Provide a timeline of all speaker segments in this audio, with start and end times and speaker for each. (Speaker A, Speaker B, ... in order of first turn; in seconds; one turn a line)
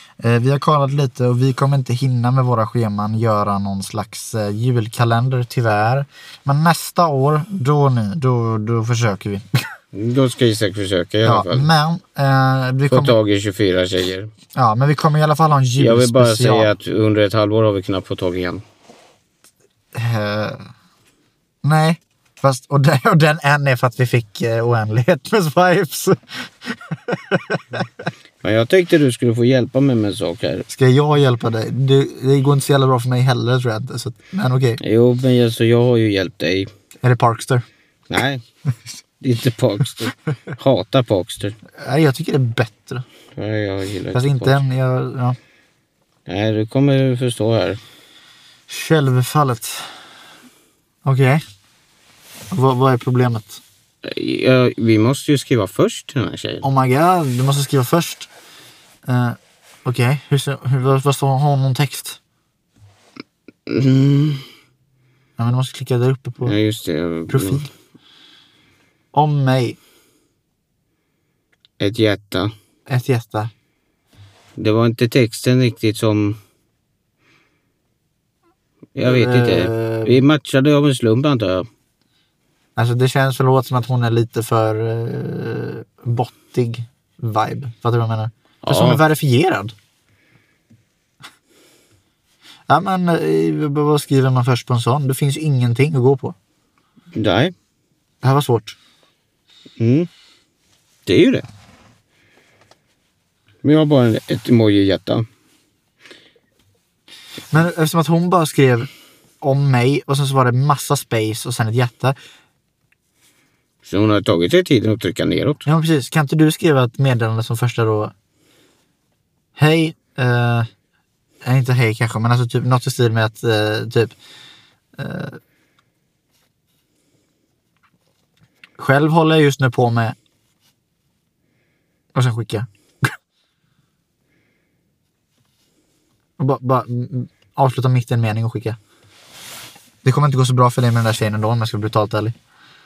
Speaker A: 0.2-9.5
Speaker B: 9.9-11.7
Speaker A: 11.2-13.2
Speaker B: 12.9-14.3
Speaker A: 14.6-16.7
Speaker B: 15.8-18.6
Speaker A: 19.9-20.7
Speaker A: 21.6-28.1
Speaker B: 28.4-30.7
Speaker A: 30.7-34.8
Speaker B: 34.8-36.7
Speaker A: 37.0-37.6
Speaker B: 38.1-38.4
Speaker B: 39.2-41.6
Speaker A: 41.8-43.0
Speaker B: 43.4-44.6
Speaker A: 44.1-45.4
Speaker B: 46.3-47.8
Speaker A: 48.7-50.0
Speaker A: 51.0-51.4
Speaker A: 52.5-53.6
Speaker B: 54.0-56.6
Speaker A: 56.6-58.3
Speaker A: 59.1-62.2
Speaker B: 63.7-64.5
Speaker A: 65.4-66.5
Speaker B: 66.4-67.7
Speaker A: 67.3-67.7
Speaker A: 69.1-69.8
Speaker B: 71.8-72.5
Speaker A: 72.9-73.5
Speaker B: 74.6-76.4
Speaker B: 79.0-81.7
Speaker A: 79.0-80.2
Speaker A: 82.8-89.7
Speaker B: 88.6-89.0
Speaker A: 92.7-96.4
Speaker B: 97.2-97.5
Speaker A: 98.2-98.8
Speaker B: 99.8-100.1
Speaker B: 101.1-101.5
Speaker B: 103.6-105.3
Speaker A: 107.5-108.9
Speaker A: 109.4-112.2
Speaker B: 113.8-115.7
Speaker A: 115.7-118.1
Speaker A: 119.6-120.7
Speaker A: 121.4-124.2
Speaker A: 125.0-125.4
Speaker A: 128.8-130.2
Speaker A: 132.1-133.1
Speaker A: 136.4-138.8
Speaker A: 140.0-142.3